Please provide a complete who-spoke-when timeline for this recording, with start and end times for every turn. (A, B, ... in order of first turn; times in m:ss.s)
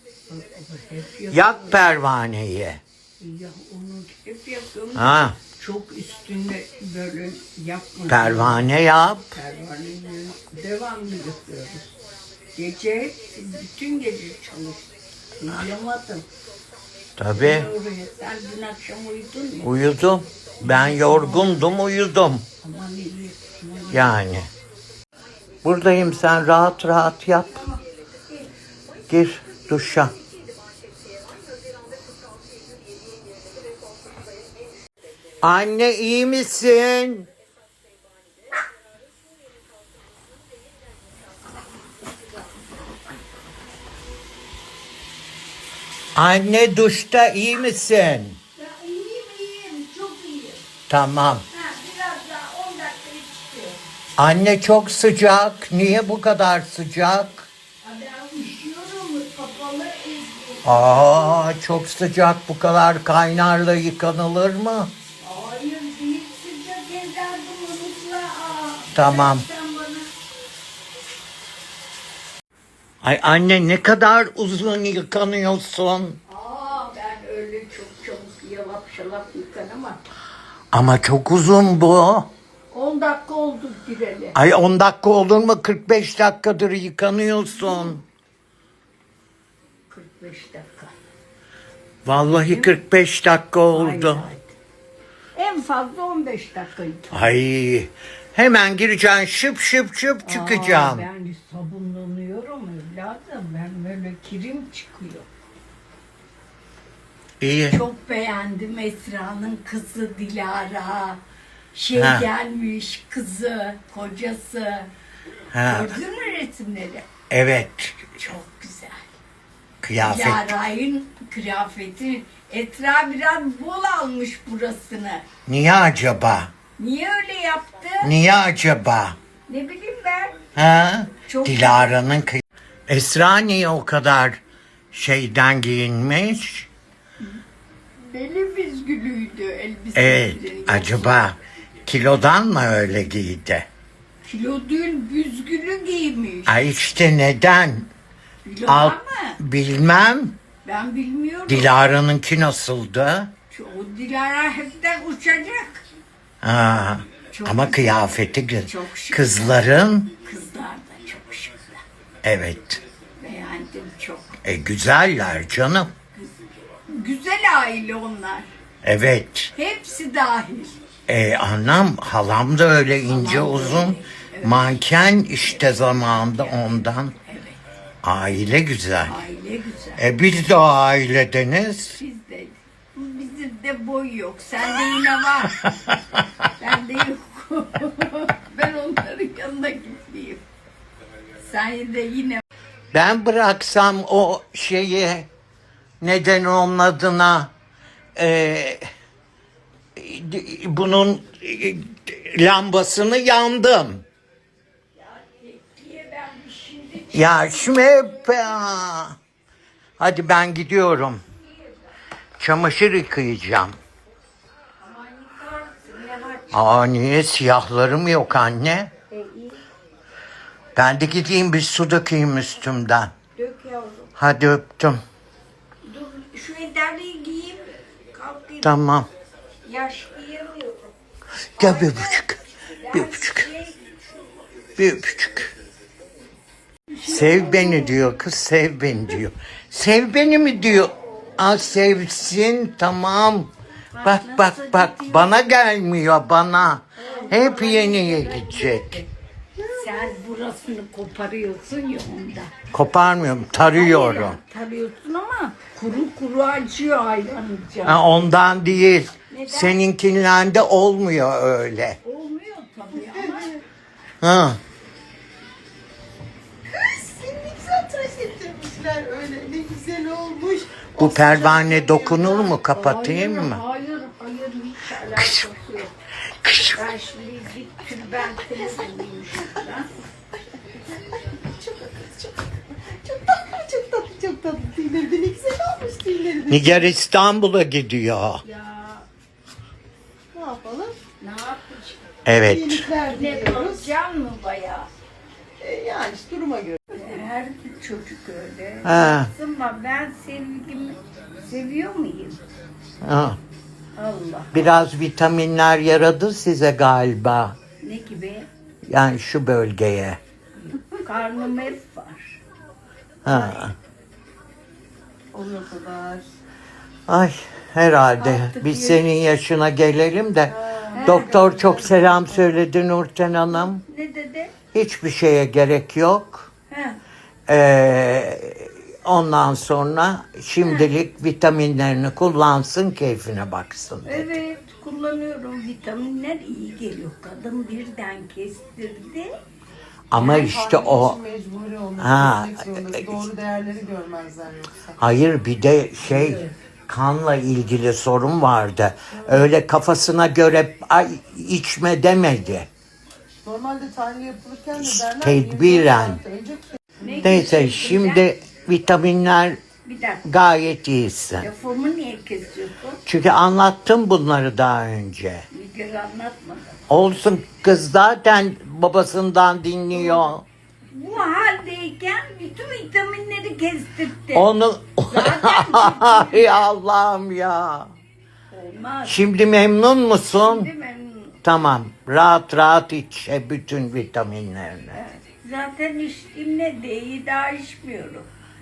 0:00.3-0:01.8 A
0:01.3-0:02.8 B
0:03.2-0:08.6 A
0:04.9-0:05.4 B
0:08.1-0:09.3 B
0:09.3-0:11.9 A
0:12.5-0:16.2 A
0:17.2-0:17.7 B
0:17.3-0:19.7 A
0:19.6-0:22.4 B
0:20.6-0:21.6 A
0:22.6-0:24.1 A
0:23.9-0:24.5 B
0:25.6-0:27.7 B
0:29.1-0:30.1 B
0:35.4-0:37.3 B
0:46.2-0:48.4 B
0:48.6-0:50.6 A
0:50.9-0:51.4 B
0:51.5-0:53.8 A
0:54.2-0:57.5 B
0:57.8-1:01.4 A
1:00.6-1:04.9 B
1:05.2-1:10.1 A
1:08.9-1:09.4 B
1:13.0-1:16.2 B
1:16.3-1:20.0 A
1:20.7-1:22.3 B
1:22.7-1:24.4 A
1:24.3-1:28.0 B
1:29.9-1:30.9 A
1:32.0-1:34.2 B
1:32.3-1:32.8 A
1:33.7-1:34.5 A
1:35.3-1:37.3 A
1:37.1-1:41.1 B
1:40.2-1:45.3 A
1:47.4-1:47.8 B
1:47.7-1:51.2 A
1:51.7-1:54.9 A
1:51.9-1:52.3 B
1:55.5-1:56.0 B
1:55.6-1:57.1 A
1:57.3-1:58.2 B
1:58.2-1:59.1 A
1:59.8-2:00.5 B
2:00.0-2:05.2 A
2:05.5-2:06.5 B
2:06.8-2:08.1 A
2:08.0-2:09.2 B
2:09.5-2:10.4 A
2:10.5-2:14.4 B
2:11.2-2:12.1 A
2:14.9-2:16.7 B
2:18.0-2:21.2 A
2:19.9-2:23.7 B
2:24.2-2:26.7 A
2:26.5-2:27.9 B
2:28.4-2:29.4 A
2:28.6-2:30.4 B
2:30.6-2:31.7 A
2:31.5-2:33.3 B
2:33.5-2:35.8 A
2:36.4-2:40.1 B
2:37.3-2:41.8 A
2:42.2-2:42.8 B
2:43.2-2:44.3 A
2:44.4-2:45.9 B
2:46.1-2:48.5 A
2:48.8-2:49.5 B
2:49.5-2:50.8 A
2:51.1-2:57.1 B
2:53.1-2:54.9 A
2:55.4-2:57.6 A
2:58.0-2:59.2 B
2:59.0-3:00.0 A
3:00.0-3:02.0 B
3:02.0-3:05.7 A
3:05.6-3:06.0 B
3:06.5-3:10.4 A
3:11.4-3:12.4 A
3:12.9-3:15.3 B
3:16.0-3:17.5 B
3:18.2-3:18.8 B
3:20.0-3:24.0 B
3:25.0-3:28.6 A
3:27.1-3:29.2 B
3:30.0-3:31.2 B
3:32.4-3:33.8 B
3:34.8-3:36.6 A
3:36.5-3:38.9 B
3:39.1-3:39.6 A
3:40.7-3:43.1 B
3:43.4-3:44.1 A
3:44.2-3:45.0 B
3:45.8-3:48.7 A
3:48.6-3:49.1 B
3:49.6-3:50.9 A
3:51.5-3:52.4 B
3:51.6-3:53.9 A
3:52.9-3:53.5 B
3:54.8-3:55.5 B
3:56.9-3:58.1 A
3:57.0-4:03.5 B
4:03.9-4:05.4 A
4:04.0-4:09.0 B
4:07.0-4:09.1 A
4:09.7-4:12.6 A
4:12.7-4:14.4 B
4:13.5-4:18.0 A
4:17.8-4:22.0 B
4:19.3-4:19.8 A
4:22.0-4:23.6 A
4:23.0-4:23.5 C
4:24.2-4:24.6 B
4:26.7-4:32.8 C
4:31.0-4:33.6 B
4:32.8-4:35.9 A
4:35.1-4:35.5 B
4:36.4-4:36.8 B
4:36.6-4:39.9 A
4:40.9-4:46.9 C
4:46.5-4:48.4 B
4:48.4-4:49.0 A
4:50.3-4:51.0 C
4:51.2-4:52.0 A
4:52.2-4:52.9 B
4:52.4-4:53.9 C
4:53.1-4:54.9 A
4:55.6-4:57.1 C
4:56.9-5:02.4 A
4:58.8-4:59.3 B
5:03.0-5:03.4 B
5:04.0-5:04.6 A
5:04.5-5:07.6 B
5:07.8-5:08.5 A
5:08.9-5:10.2 B
5:10.7-5:12.4 A
5:13.2-5:13.7 B
5:13.3-5:13.6 A
5:15.3-5:16.2 C
5:17.1-5:23.8 B
5:18.2-5:19.0 A
5:20.5-5:22.4 C
5:20.9-5:21.3 A
5:23.5-5:24.5 A
5:24.7-5:26.5 B
5:26.7-5:27.0 A
5:27.5-5:34.3 B
5:30.6-5:30.9 A
5:34.0-5:39.3 A
5:40.1-5:41.2 B
5:40.2-5:45.0 C
5:42.0-5:43.1 B
5:45.0-5:52.7 B
5:49.1-5:49.5 C
5:53.4-5:57.2 C
5:54.8-5:56.2 B
5:57.0-5:58.2 A
5:57.2-5:59.6 B
5:59.8-6:00.2 A
6:00.2-6:01.5 B
6:01.4-6:03.0 A
6:03.0-6:05.4 B
6:05.5-6:06.8 A
6:06.9-6:10.4 B
6:09.9-6:10.3 A
6:10.9-6:14.5 A
6:14.3-6:17.9 B
6:15.1-6:16.6 A
6:18.5-6:19.3 A
6:19.0-6:20.7 B
6:20.3-6:21.4 A
6:21.4-6:25.0 B
6:24.9-6:28.3 A